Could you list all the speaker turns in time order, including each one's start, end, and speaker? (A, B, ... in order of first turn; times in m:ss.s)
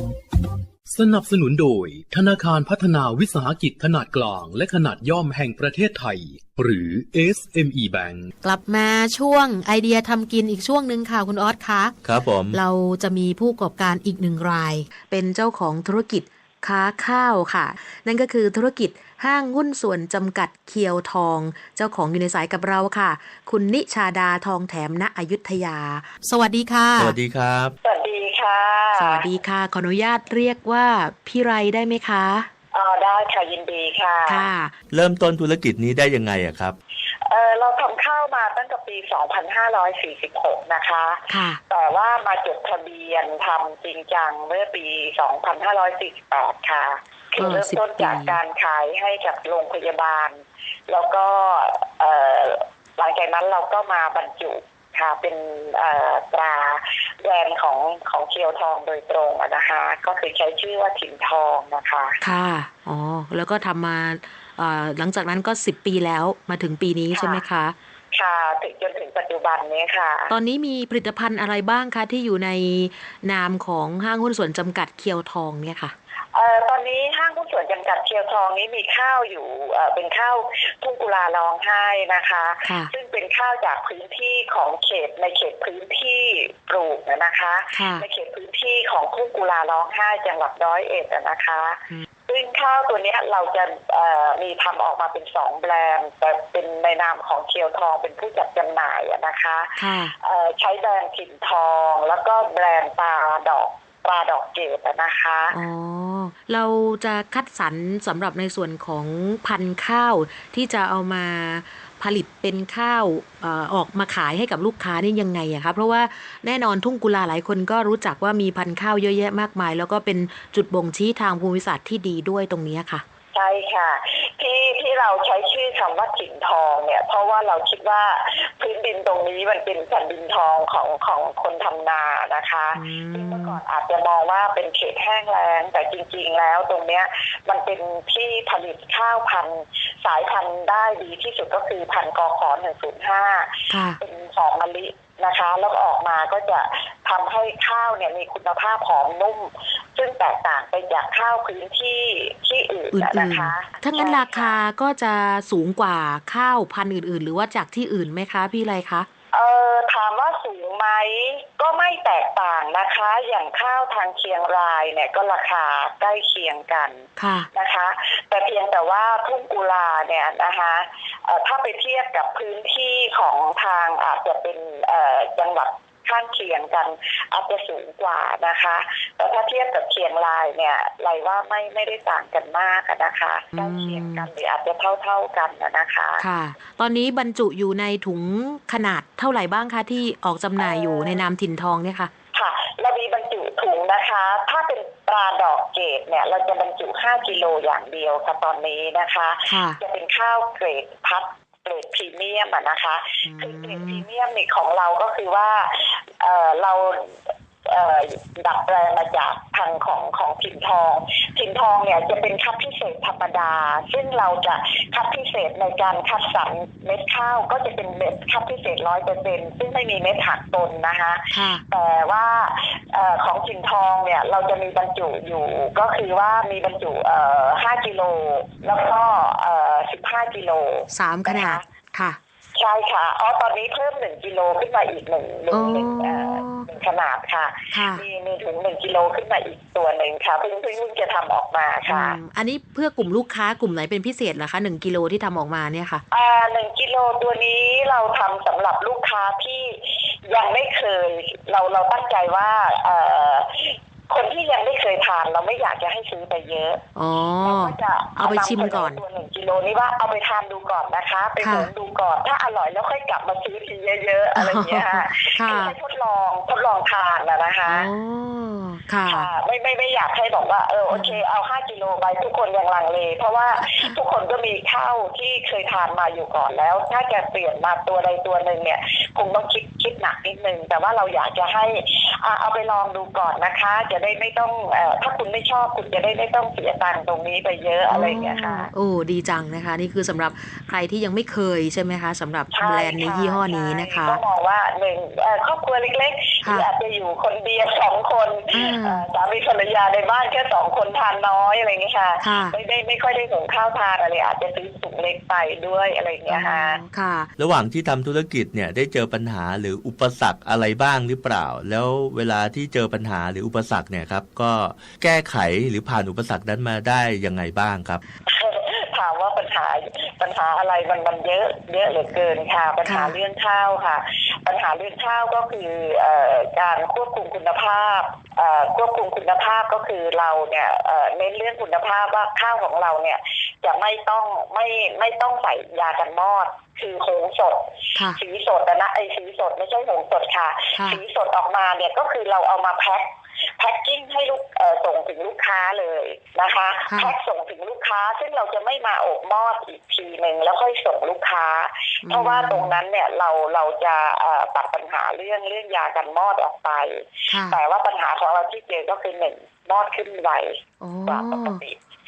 0:00.8-0:08.3 A
0:08.4-0:11.9 B
0:12.0-0:12.6 C
0:12.5-0:27.2 B
0:27.0-0:27.8 C
0:27.8-0:29.3 D
0:28.9-0:32.5 B
0:32.7-0:34.5 D
0:34.2-0:34.7 B
0:34.9-0:36.8 C
0:37.2-1:02.2 D
0:41.3-0:41.6 B
0:47.4-0:48.4 B
1:02.2-1:07.7 B
1:07.1-1:07.4 D
1:08.1-1:10.3 D
1:10.3-1:15.9 B
1:16.3-1:45.6 D
1:22.6-1:22.9 B
1:27.7-1:28.0 B
1:39.8-1:40.1 B
1:45.5-2:03.0 B
2:03.3-2:34.6 D
2:12.7-2:13.6 B
2:23.7-2:24.0 B
2:32.9-2:39.1 B
2:39.3-3:06.2 D
2:47.2-2:47.5 B
3:03.5-3:04.3 B
3:06.2-3:12.1 B
3:10.6-3:11.2 D
3:12.3-3:51.6 D
3:19.4-3:19.8 B
3:23.2-3:24.0 B
3:41.3-3:41.6 B
3:50.9-3:52.2 B
3:52.5-4:02.2 D
3:55.5-3:56.7 B
3:57.7-3:58.0 B
4:01.9-4:06.0 B
4:06.1-4:16.8 D
4:16.9-4:19.0 B
4:17.4-4:27.9 D
4:21.4-4:21.7 B
4:24.3-4:25.7 B
4:27.7-4:29.3 B
4:29.1-4:48.7 D
4:30.9-4:31.2 B
4:33.6-4:34.0 B
4:47.9-4:54.2 B
4:52.5-5:06.8 D
4:56.4-4:56.7 B
4:58.5-4:59.0 B
5:02.2-5:02.6 B
5:06.3-5:07.3 B
5:07.4-5:18.0 C
5:18.3-6:01.8 D
5:22.8-5:23.2 B
5:40.7-5:41.0 B
5:46.9-5:47.1 B
5:52.0-5:52.8 B
5:57.3-5:57.6 B
6:00.8-6:01.6 B